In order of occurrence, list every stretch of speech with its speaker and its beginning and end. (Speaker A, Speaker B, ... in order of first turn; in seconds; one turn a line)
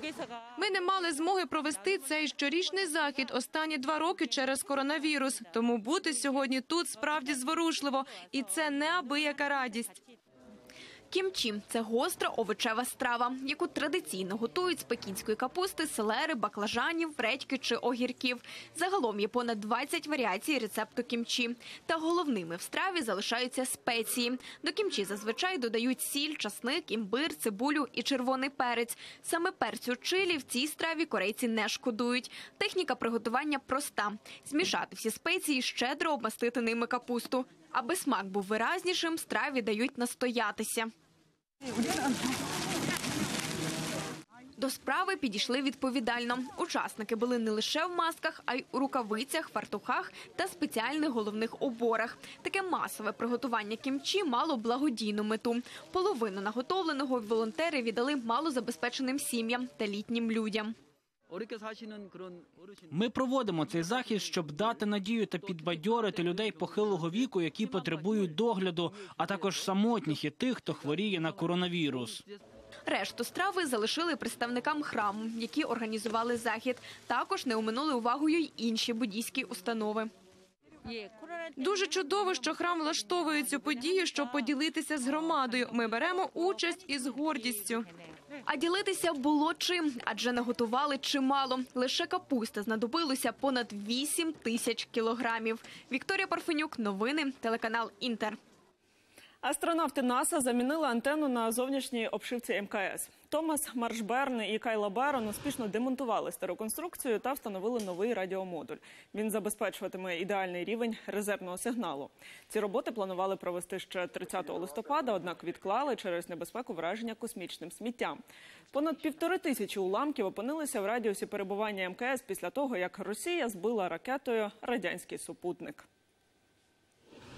Speaker A: 0.6-10.0
Speaker B: 11.1-40.9
Speaker B: 44.6-60.7
Speaker C: 62.9-72.2
Speaker B: 72.9-80.1
Speaker A: 81.6-87.9
Speaker B: 88.5-98.4
Speaker D: 99.4-125.8